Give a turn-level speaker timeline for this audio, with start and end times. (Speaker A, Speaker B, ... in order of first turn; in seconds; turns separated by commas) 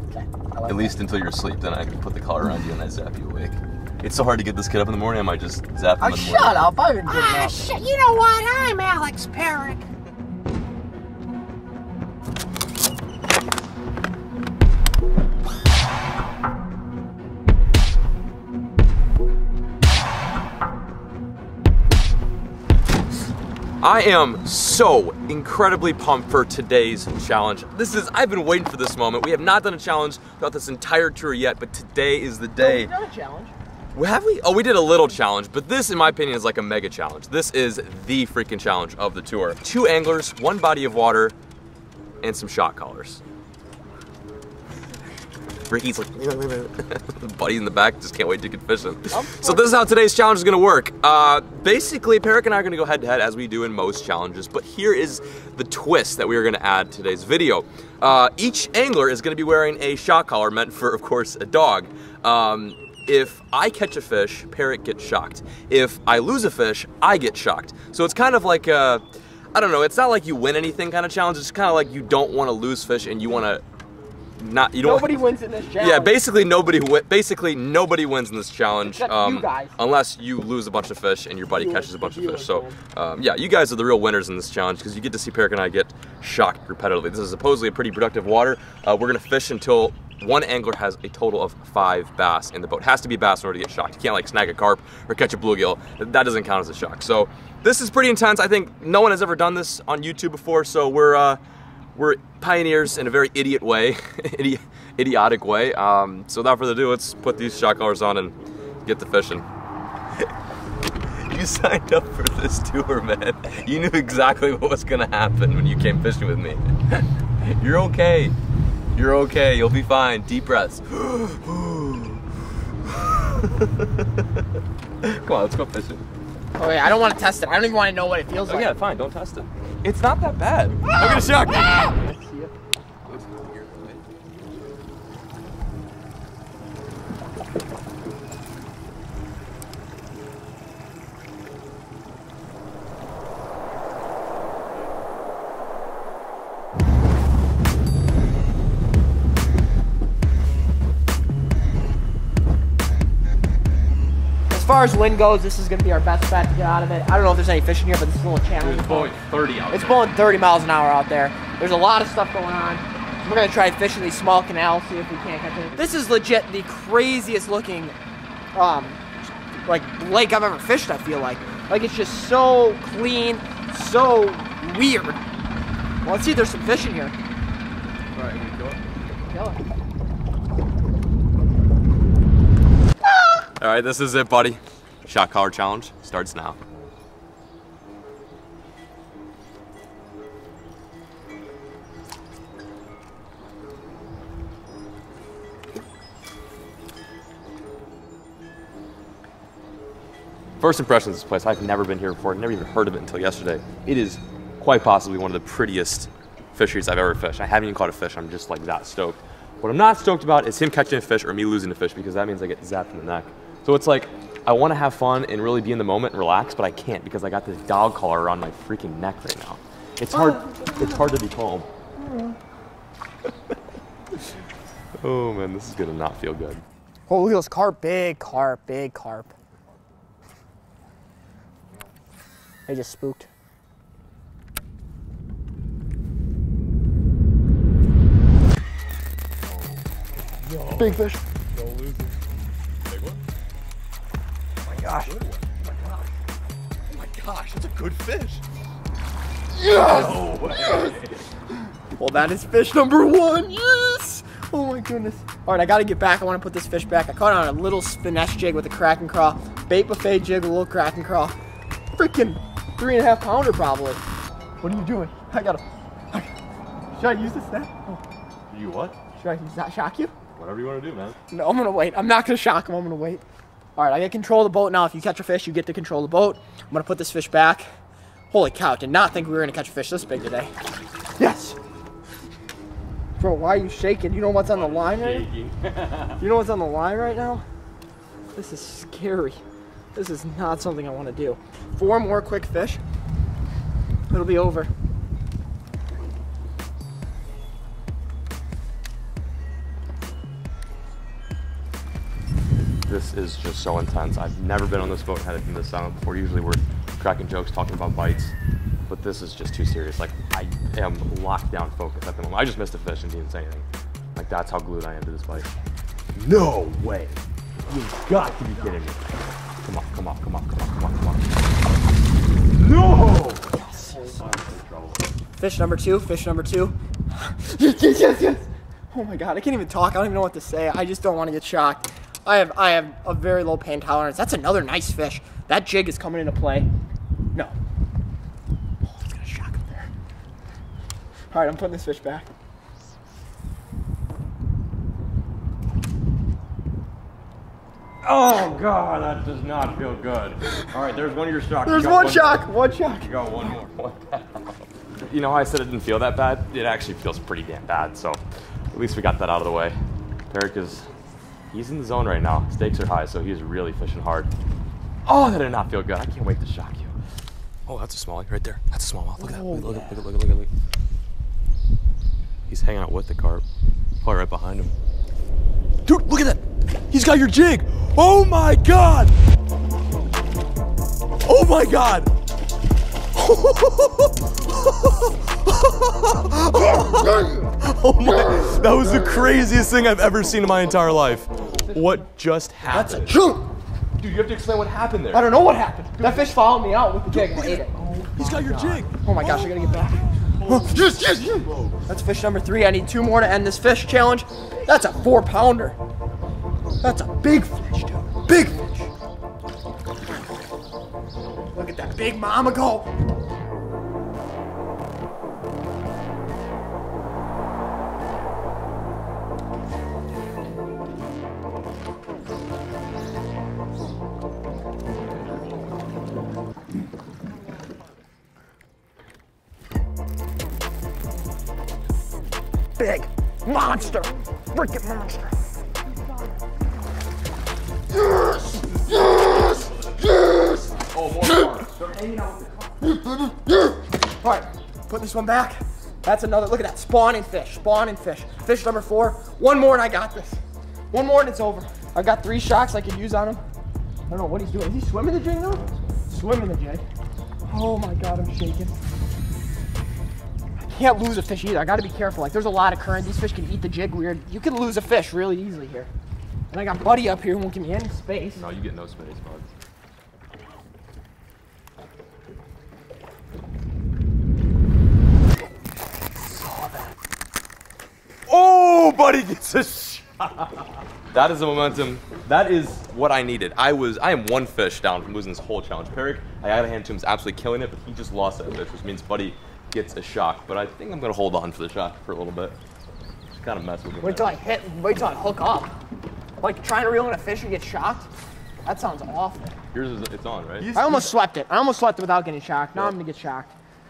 Speaker A: 0.1-1.0, Speaker B: 0.7-6.7, Speaker A: 6.0-7.7, Speaker C: 7.1-9.8, Speaker B: 23.8-32.9, Speaker A: 32.6-33.5, Speaker B: 33.9-41.4, Speaker B: 42.2-43.2, Speaker B: 45.7-69.0, Speaker A: 49.1-49.8, Speaker B: 69.5-73.6, Speaker B: 74.4-75.2, Speaker A: 74.8-76.2, Speaker B: 75.8-101.4, Speaker A: 78.8-79.8, Speaker A: 81.5-82.8, Speaker B: 101.9-109.5, Speaker B: 111.1-118.3, Speaker B: 118.9-122.2, Speaker B: 122.8-124.4, Speaker B: 125.0-126.0, Speaker A: 126.6-128.8, Speaker B: 128.4-131.9, Speaker A: 130.9-132.5, Speaker B: 133.0-134.0, Speaker A: 154.5-159.2, Speaker B: 158.6-160.1, Speaker A: 159.7-167.9, Speaker A: 168.5-175.2, Speaker A: 176.0-177.1, Speaker B: 178.1-178.8, Speaker A: 179.3-179.6, Speaker B: 183.1-186.6, Speaker B: 200.6-221.7, Speaker A: 220.1-221.1, Speaker A: 222.0-222.3, Speaker B: 225.0-226.6, Speaker A: 227.1-229.3, Speaker A: 232.7-233.3, Speaker B: 239.5-239.8, Speaker B: 240.4-242.2, Speaker A: 240.8-241.2, Speaker B: 242.8-243.2, Speaker A: 244.7-245.2, Speaker B: 244.7-246.0, Speaker B: 246.9-248.4, Speaker A: 249.6-250.3, Speaker B: 249.6-251.3, Speaker A: 251.9-261.4, Speaker A: 261.9-264.0, Speaker A: 264.6-266.3, Speaker A: 266.9-268.0, Speaker B: 268.5-269.0, Speaker A: 269.2-270.1, Speaker B: 270.4-271.2, Speaker A: 271.3-273.2, Speaker A: 273.8-277.7, Speaker A: 278.3-280.5, Speaker A: 281.2-281.6, Speaker A: 283.2-285.3, Speaker B: 284.5-286.2, Speaker A: 286.2-287.4, Speaker A: 288.3-289.4, Speaker A: 289.9-292.8, Speaker A: 294.1-294.7, Speaker B: 302.8-308.3, Speaker B: 308.9-315.5, Speaker B: 316.1-321.3, Speaker B: 322.5-325.1, Speaker A: 323.5-324.2, Speaker A: 325.4-336.7, Speaker A: 338.8-339.9, Speaker A: 341.3-342.3, Speaker B: 348.0-352.5, Speaker A: 351.6-353.5, Speaker B: 353.0-354.6, Speaker B: 355.1-358.2, Speaker B: 358.7-359.8, Speaker B: 360.3-360.9, Speaker B: 361.5-364.3, Speaker B: 365.0-366.9, Speaker B: 367.6-370.5, Speaker A: 369.2-370.0, Speaker B: 372.5-373.4, Speaker B: 374.0-374.7, Speaker B: 375.8-379.1, Speaker B: 381.2-382.1, Speaker B: 383.1-393.1, Speaker A: 392.7-393.5, Speaker B: 394.0-395.3, Speaker A: 395.1-405.8, Speaker B: 397.1-401.8, Speaker A: 406.8-408.7, Speaker A: 411.5-412.9, Speaker A: 432.8-435.4, Speaker B: 438.4-440.1, Speaker B: 440.7-442.8, Speaker A: 442.8-453.4, Speaker A: 454.1-456.8, Speaker A: 457.5-458.7, Speaker A: 460.6-465.9, Speaker A: 466.5-468.4, Speaker B: 468.4-469.5, Speaker B: 478.3-492.6, Speaker B: 493.3-494.4, Speaker A: 494.0-495.8, Speaker A: 496.4-498.1, Speaker A: 498.6-499.6, Speaker B: 499.7-501.1, Speaker A: 500.6-503.5